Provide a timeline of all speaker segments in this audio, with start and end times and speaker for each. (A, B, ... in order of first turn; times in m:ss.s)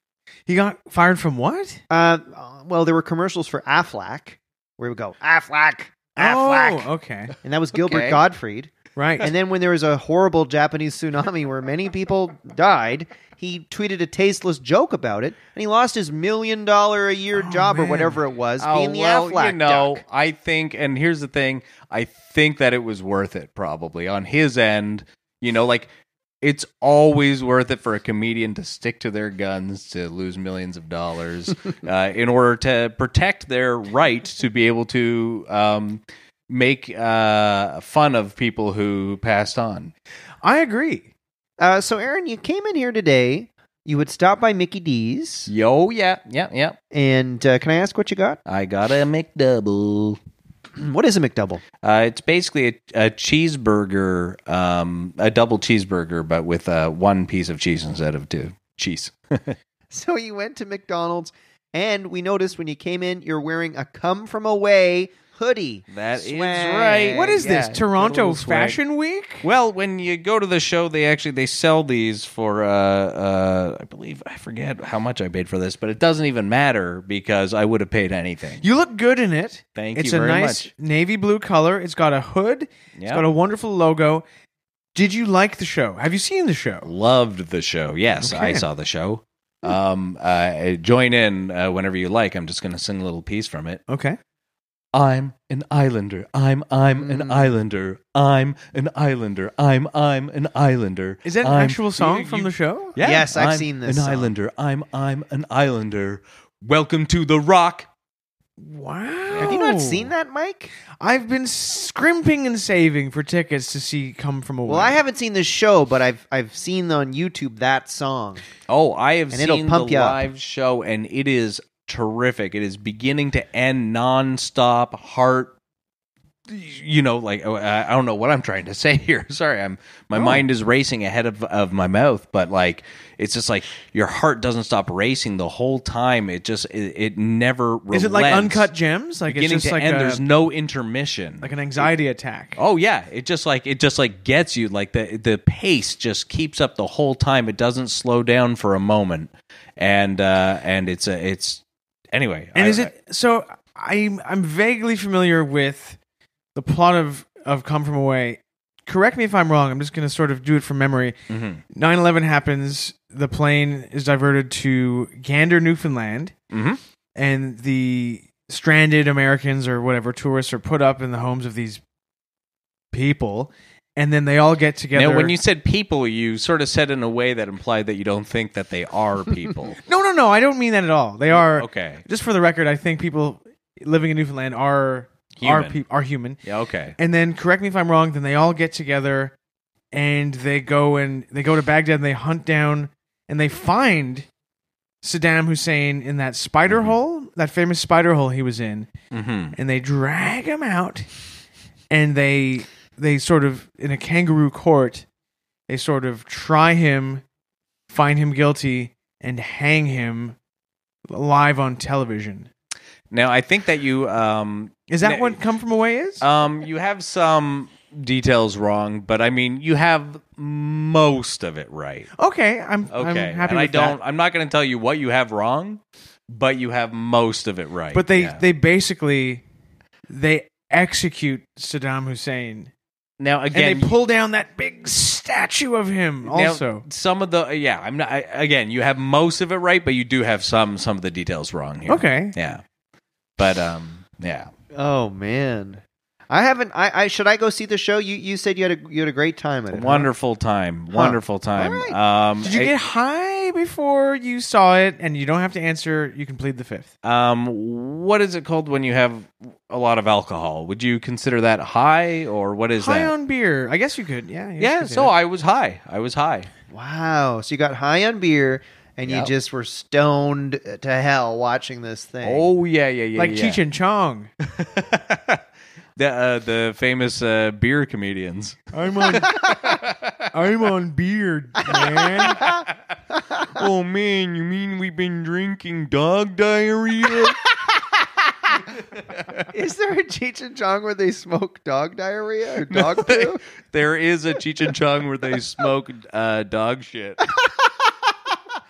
0:00.5-0:01.8 A
0:01.9-0:06.9 B
0:06.2-0:07.3 A
0:07.4-0:20.0 B
0:07.7-0:08.2 C
0:09.0-0:09.3 A
0:17.3-0:18.2 A
0:18.6-0:25.9 C
0:26.4-0:39.9 C
0:40.4-0:41.1 A
0:41.6-0:45.5 B
0:45.5-0:46.8 C
0:46.9-0:48.4 B
0:48.4-0:50.2 C
0:50.8-0:51.6 B
0:51.8-0:59.6 C
0:59.9-1:07.4 B
1:05.9-1:08.8 C
1:07.1-1:09.4 A
1:09.4-1:18.6 C
1:18.6-1:24.2 A
1:19.7-1:20.7 C
1:23.0-1:23.2 C
1:24.9-1:26.9 A
1:26.8-1:33.8 C
1:28.2-1:28.6 A
1:33.9-1:34.2 A
1:34.9-1:47.9 C
1:37.0-1:37.5 B
1:41.2-1:43.0 A
1:43.0-1:44.3 B
1:48.6-1:50.1 A
1:49.4-1:50.7 B
1:51.0-1:55.0 A
1:54.7-1:58.4 B
1:58.7-2:05.5 C
1:59.3-2:00.2 B
2:06.5-2:18.7 C
2:17.9-2:20.2 A
2:19.3-2:21.9 C
2:21.4-2:22.6 A
2:22.6-2:31.6 C
2:32.1-2:32.9 C
2:32.5-2:36.0 A
2:36.5-2:41.2 A
2:41.3-2:41.6 C
2:41.7-2:46.3 A
2:46.5-2:46.8 C
2:47.2-2:51.8 A
2:52.9-2:55.3 A
2:54.9-2:59.8 C
2:59.8-3:06.4 A
3:01.3-3:02.0 C
3:05.4-3:05.8 C
3:06.4-3:06.9 C
3:07.0-3:09.3 A
3:09.9-3:14.3 A
3:15.0-3:18.9 A
3:16.7-3:16.9 C
3:19.1-3:19.6 C
3:19.6-3:21.1 A
3:21.9-3:25.0 A
3:25.7-3:27.2 A
3:27.9-3:30.4 A
3:31.1-3:32.5 A
3:33.1-3:35.4 C
3:34.9-3:36.2 A
3:36.2-3:42.1 C
3:42.2-3:44.0 A
3:42.9-3:48.4 C
3:47.9-3:49.4 A
3:50.1-3:52.7 A
3:53.2-3:53.9 C
3:53.5-3:56.8 A
3:56.2-4:02.6 C
4:01.9-4:02.3 A
4:03.4-4:04.5 C
4:04.7-4:10.1 B
4:09.7-4:12.7 C
4:10.9-4:12.0 B
4:12.4-4:16.9 A
4:17.0-4:23.1 C
4:22.8-4:25.1 A
4:24.6-4:26.5 C
4:26.7-4:32.5 B
4:29.0-4:29.3 C
4:32.2-4:33.6 C
4:33.2-4:34.3 A
4:34.4-4:35.4 C
4:36.0-4:40.3 C
4:38.7-4:39.4 A
4:39.3-4:39.6 B
4:40.3-4:42.4 A
4:41.6-4:43.6 B
4:43.5-4:47.5 C
4:49.0-4:49.4 C
4:49.5-4:53.4 B
4:52.7-4:57.3 C
4:57.3-4:57.9 B